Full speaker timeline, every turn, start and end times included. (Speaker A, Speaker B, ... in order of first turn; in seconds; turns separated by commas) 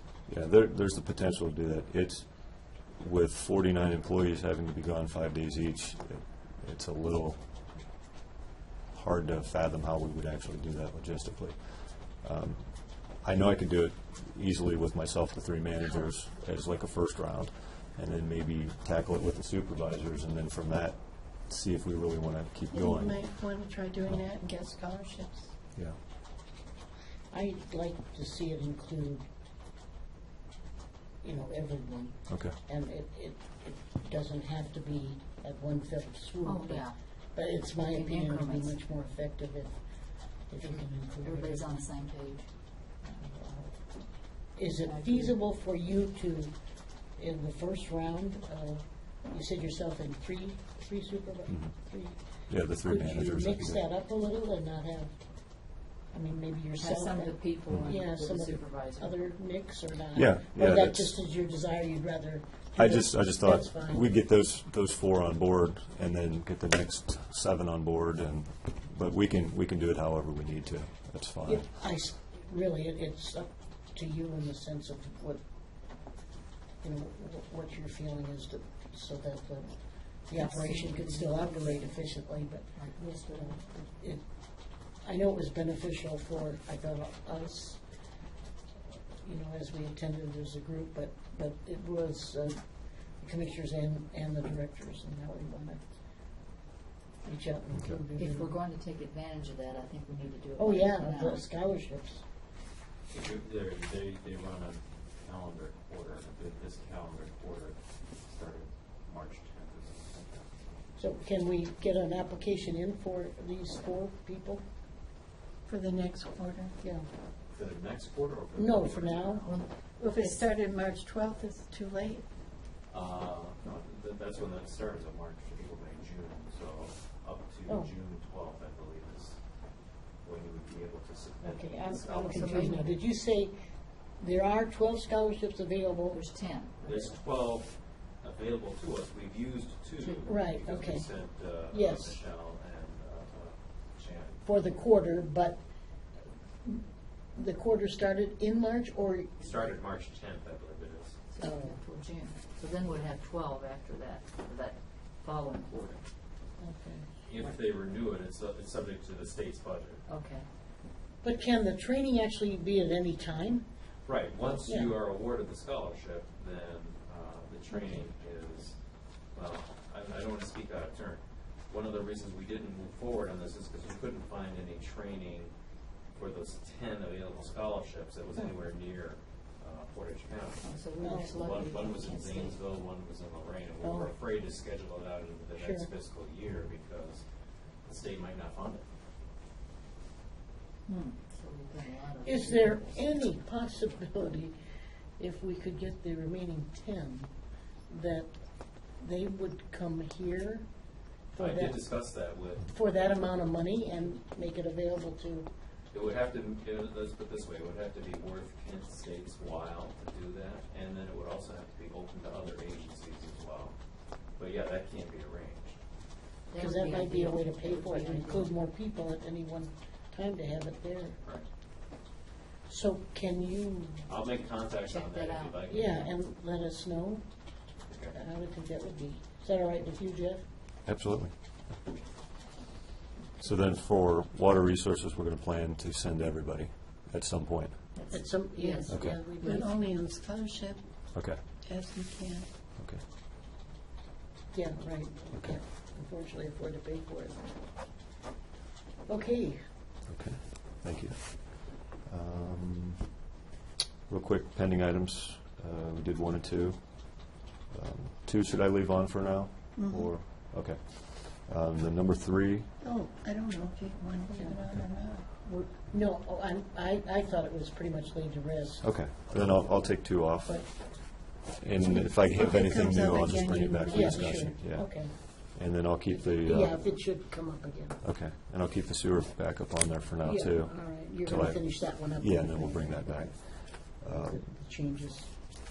Speaker A: 0.3-7.5, Speaker A: 8.9-23.4, Speaker B: 22.7-25.5, Speaker C: 27.3-29.2, Speaker C: 31.2-41.8, Speaker A: 32.3-32.6, Speaker D: 36.4-37.0, Speaker D: 37.8-38.8, Speaker D: 40.6-42.5, Speaker C: 43.2-43.8, Speaker C: 44.5-46.5, Speaker D: 44.7-45.4, Speaker C: 47.1-64.0, Speaker A: 52.5-53.9, Speaker D: 56.8-59.2, Speaker A: 60.1-61.1, Speaker A: 62.8-71.7, Speaker C: 71.5-75.4, Speaker C: 76.8-84.2, Speaker D: 80.4-81.9, Speaker D: 82.7-83.6, Speaker C: 85.0-87.8, Speaker C: 88.9-95.9, Speaker C: 97.2-98.6, Speaker A: 97.7-98.0, Speaker D: 98.1-101.5, Speaker C: 100.6-102.2, Speaker E: 103.1-110.4, Speaker C: 111.0-114.6, Speaker B: 115.6-116.8, Speaker C: 116.8-117.1, Speaker E: 117.5-119.5, Speaker C: 118.5-119.4, Speaker D: 119.4-120.4, Speaker B: 120.0-122.2, Speaker E: 122.9-129.4, Speaker C: 127.7-127.9, Speaker E: 130.2-132.9, Speaker C: 131.4-133.5, Speaker D: 132.2-132.9, Speaker C: 134.2-136.2, Speaker D: 136.1-136.8, Speaker E: 136.8-144.4, Speaker D: 140.0-140.4, Speaker C: 140.2-141.1, Speaker C: 141.7-142.2, Speaker C: 144.4-145.6, Speaker C: 146.6-149.5, Speaker E: 149.4-151.2, Speaker D: 151.3-156.0, Speaker C: 151.4-151.8, Speaker C: 156.6-157.5, Speaker E: 157.2-160.0, Speaker D: 160.1-160.5, Speaker C: 161.2-163.7, Speaker E: 164.0-168.8, Speaker C: 164.6-165.0, Speaker E: 169.3-175.5, Speaker E: 176.1-180.7, Speaker D: 180.6-182.6, Speaker C: 181.0-181.3, Speaker E: 181.2-187.2, Speaker C: 183.8-184.1, Speaker C: 185.6-185.9, Speaker E: 187.8-188.8, Speaker D: 190.9-193.2, Speaker C: 192.2-194.5, Speaker C: 195.2-200.7, Speaker C: 201.3-202.1, Speaker E: 201.3-202.8, Speaker C: 202.6-205.5, Speaker E: 205.9-213.7, Speaker E: 214.3-215.8, Speaker D: 216.5-218.7, Speaker C: 216.5-221.2, Speaker C: 222.7-224.1, Speaker E: 224.1-226.1, Speaker D: 224.8-226.0, Speaker C: 225.7-227.2, Speaker E: 227.9-228.2, Speaker C: 228.1-230.4, Speaker A: 230.8-231.3, Speaker A: 233.4-237.8, Speaker D: 237.9-239.0, Speaker C: 238.1-239.7, Speaker A: 238.9-239.2, Speaker B: 239.4-240.8, Speaker A: 241.1-241.4, Speaker B: 241.4-242.5, Speaker C: 244.5-247.4, Speaker A: 245.3-245.6, Speaker C: 249.1-249.6, Speaker A: 250.1-253.1, Speaker A: 254.1-262.7, Speaker B: 259.8-260.1, Speaker B: 262.8-265.3, Speaker C: 264.3-264.6, Speaker C: 265.4-268.9, Speaker A: 268.8-276.8, Speaker C: 270.4-270.7, Speaker B: 271.8-274.5, Speaker C: 273.9-275.2, Speaker C: 276.3-278.0, Speaker A: 278.0-284.4, Speaker C: 280.2-283.4, Speaker C: 284.0-285.3